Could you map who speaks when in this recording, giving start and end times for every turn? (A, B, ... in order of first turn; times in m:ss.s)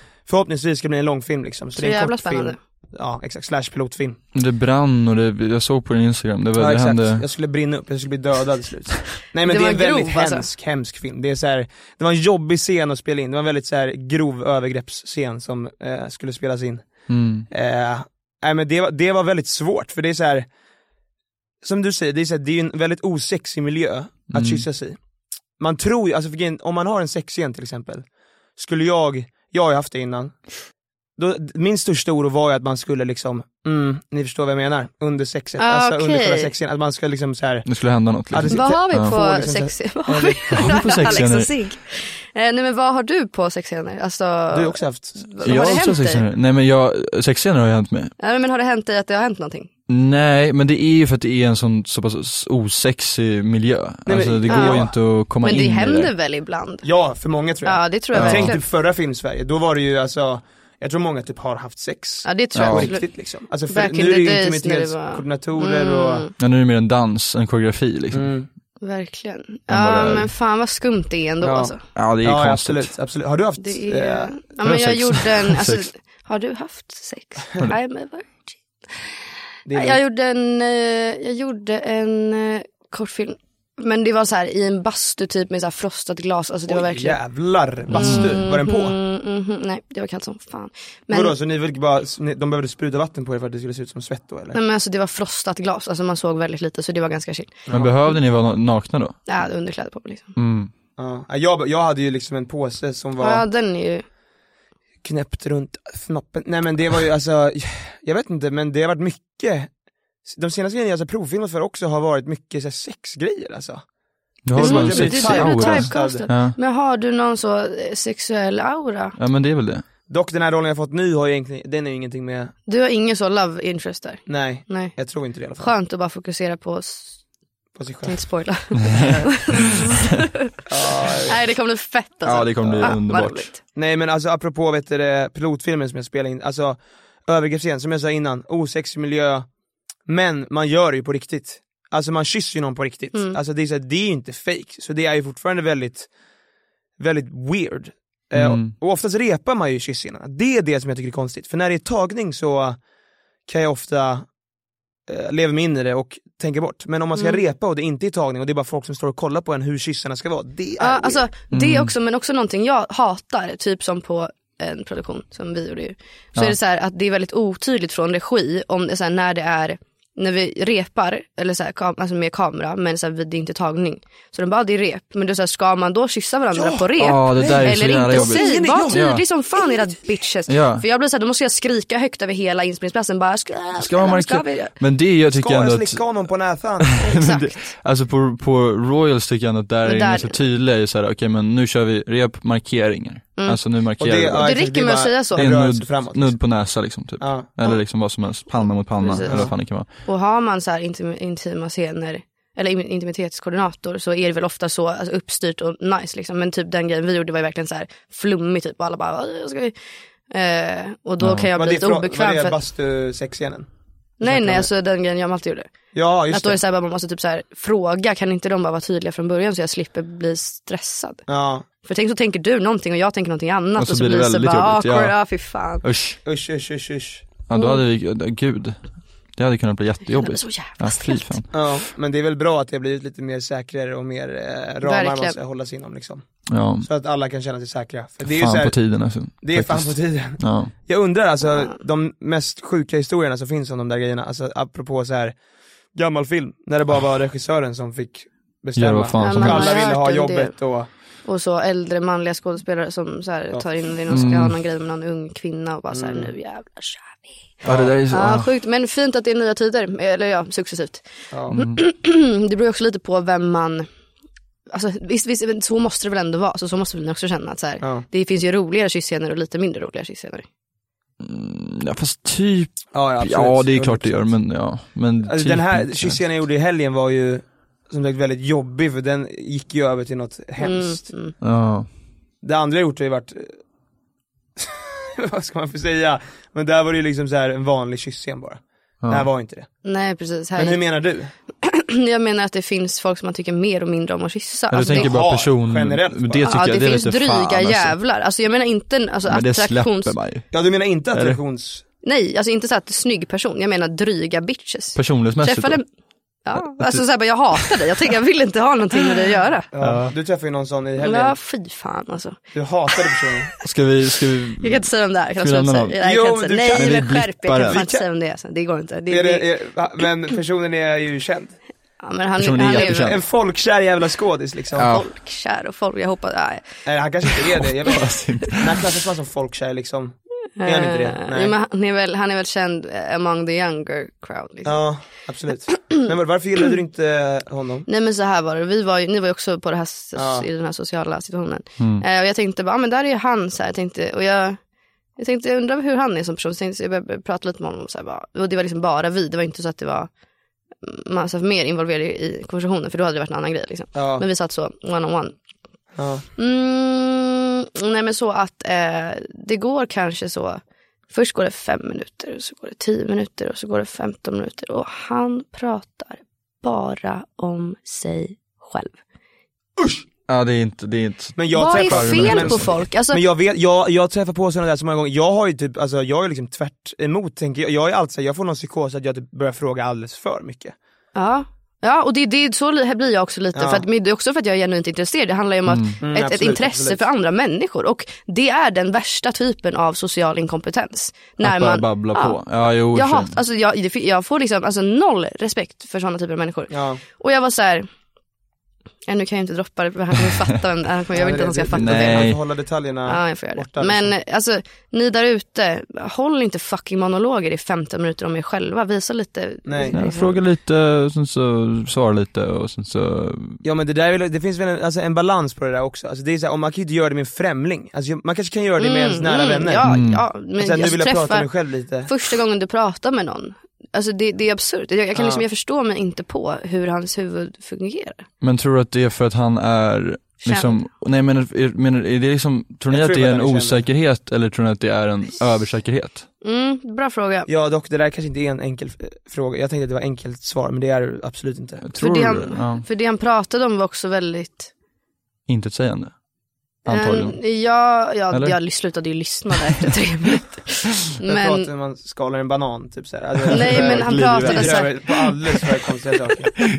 0:00.2-0:04.2 A
0:01.8-0:02.6 B
0:04.3-0:07.2 C
0:06.6-0:20.5 A
0:09.4-0:10.5 B
0:17.1-0:17.5 C
0:21.6-0:25.0 A
0:24.3-0:24.6 C
0:25.6-0:28.0 A
0:28.6-0:30.4 A
0:31.2-0:37.7 A
0:35.6-0:36.5 B
0:37.6-0:39.1 C
0:38.3-0:41.2 A
0:38.5-0:46.2 B
0:40.5-0:41.5 C
0:44.5-0:45.8 A
0:45.4-0:48.1 C
0:48.2-0:49.7 B
0:49.9-0:56.1 C
0:54.1-0:54.9 A
0:54.5-0:56.8 B
0:56.8-1:06.3 A
0:57.6-0:58.6 B
0:58.1-0:58.5 C
1:02.2-1:03.1 B
1:02.5-1:02.9 C
1:03.7-1:06.3 B
1:06.4-1:08.3 C
1:08.1-1:08.5 A
1:08.8-1:11.8 B
1:09.7-1:10.2 C
1:09.7-1:10.2 A
1:11.4-1:14.4 A
1:11.9-1:12.9 C
1:13.6-1:18.6 B
1:14.6-1:15.8 C
1:19.6-1:20.0 A
1:19.7-1:27.2 B
1:26.7-1:29.0 A
1:27.9-1:28.4 C
1:27.9-1:31.4 B
1:31.1-1:34.6 A
1:34.5-1:37.5 B
1:37.7-1:37.9 A
1:37.7-1:39.2 C
1:39.3-1:40.3 B
1:40.4-1:40.7 C
1:41.0-1:43.4 A
1:43.2-1:44.0 B
1:45.0-1:49.7 A
1:50.2-1:53.8 A
1:54.4-1:56.6 C
1:54.5-1:56.3 A
1:54.6-1:59.1 B
1:59.2-1:59.8 C
2:00.1-2:02.5 A
2:02.7-2:05.0 B
2:04.2-2:05.7 A
2:05.6-2:07.2 B
2:07.8-2:08.4 A
2:08.0-2:10.2 B
2:09.0-2:09.3 A
2:10.7-2:11.4 A
2:11.2-2:13.5 B
2:12.2-2:13.5 C
2:12.6-2:13.0 A
2:13.7-2:19.5 A
2:20.0-2:26.1 A
2:23.1-2:23.4 B
2:27.0-2:32.8 A
2:28.3-2:28.7 C
2:33.4-2:34.3 A
2:35.1-2:41.2 A
2:40.8-3:04.7 B
2:41.5-2:41.9 C
2:56.5-2:59.0 A
2:57.0-2:59.2 C
3:00.5-3:00.8 C
3:03.8-3:06.2 C
3:05.3-3:06.9 A
3:06.8-3:14.6 C
3:07.0-3:07.7 B
3:09.8-3:10.4 B
3:14.0-3:16.4 A
3:14.4-3:15.4 B
3:15.3-3:19.9 C
3:17.2-3:17.4 A
3:19.0-3:29.7 B
3:19.2-3:19.5 A
3:30.3-3:32.6 B
3:31.2-3:31.4 C
3:31.5-3:33.7 A
3:34.2-3:35.7 B
3:34.2-3:34.7 A
3:35.9-3:36.6 A
3:36.3-3:41.2 B
3:41.3-3:41.6 A
3:41.8-3:45.8 B
3:43.8-3:45.1 C
3:45.8-3:46.2 C
3:46.2-3:47.2 A
3:47.5-3:51.5 C
3:47.5-3:47.8 B
3:50.1-3:51.3 B
3:51.5-3:56.2 A
3:54.8-3:55.4 B
3:56.5-3:56.9 C
3:56.8-3:58.8 A
3:58.2-4:00.7 C
3:59.4-4:05.4 A
4:05.9-4:10.9 A
4:08.8-4:09.8 C
4:09.2-4:10.5 B
4:11.2-4:17.4 B
4:14.1-4:14.5 C
4:15.9-4:16.3 A
4:17.6-4:17.9 A
4:17.6-4:18.5 C
4:18.1-4:23.9 B
4:21.5-4:21.8 C
4:24.7-4:30.4 B
4:27.8-4:28.0 A
4:31.2-4:36.2 C
4:32.9-4:34.4 A
4:35.2-4:41.1 A
4:40.6-4:41.4 B
4:41.4-4:41.9 C
4:42.4-4:43.6 A
4:44.6-4:49.7 A
4:49.0-4:49.3 C
4:49.8-4:50.8 B
4:50.6-4:51.3 A
4:51.6-4:55.2 B
4:54.7-4:57.9 C
4:54.9-4:56.4 A
4:56.4-5:00.1 B
4:59.3-5:00.5 C
5:00.5-5:01.8 A
5:01.1-5:01.4 C
5:02.0-5:05.8 B
5:04.9-5:05.8 C
5:06.4-5:09.7 B
5:09.7-5:11.4 A
5:09.8-5:10.1 C
5:11.0-5:12.4 B
5:12.5-5:13.5 A
5:13.6-5:14.9 C
5:14.6-5:19.5 B
5:15.4-5:16.0 C
5:16.0-5:17.1 A
5:16.7-5:17.8 C
5:17.6-5:18.0 A
5:19.1-5:21.6 A
5:22.0-5:23.2 B
5:22.4-5:23.2 C
5:22.7-5:24.9 A
5:24.8-5:25.0 C
5:24.8-5:26.8 B
5:26.8-5:31.5 A
5:27.8-5:28.8 C
5:30.6-5:34.8 B
5:34.6-5:37.9 A
5:37.9-5:44.6 B
5:40.2-5:40.5 A
5:41.8-5:42.0 C
5:45.2-5:50.1 B
5:50.8-5:55.4 B
5:53.9-5:54.2 A
5:56.0-5:56.2 A
5:56.4-6:09.0 B
6:09.8-6:10.0 A
6:10.3-6:12.7 C
6:11.4-6:20.7 A
6:11.5-6:13.2 B
6:21.1-6:37.9 B
6:23.5-6:23.8 A
6:25.7-6:25.9 C
6:26.0-6:27.0 A
6:31.4-6:33.4 C
6:36.7-6:37.0 A
6:39.1-6:42.3 B
6:41.1-6:44.1 A
6:41.7-6:42.4 C
6:43.1-6:50.4 B
6:49.6-6:50.0 A
6:49.9-6:53.6 C
6:53.6-6:59.9 A
6:58.8-7:01.5 B
6:59.8-7:00.2 C
7:00.6-7:02.1 A
7:02.0-7:08.2 B
7:05.1-7:05.4 A
7:08.4-7:16.2 C
7:10.4-7:10.8 B
7:12.9-7:13.8 A
7:16.4-7:17.5 B
7:17.5-7:21.8 A
7:21.8-7:22.8 C
7:22.0-7:24.7 B
7:25.5-7:26.1 C
7:26.8-7:27.4 C
7:26.9-7:31.7 B
7:28.3-7:28.6 C
7:31.2-7:36.6 A
7:33.5-7:35.0 C
7:33.5-7:35.3 B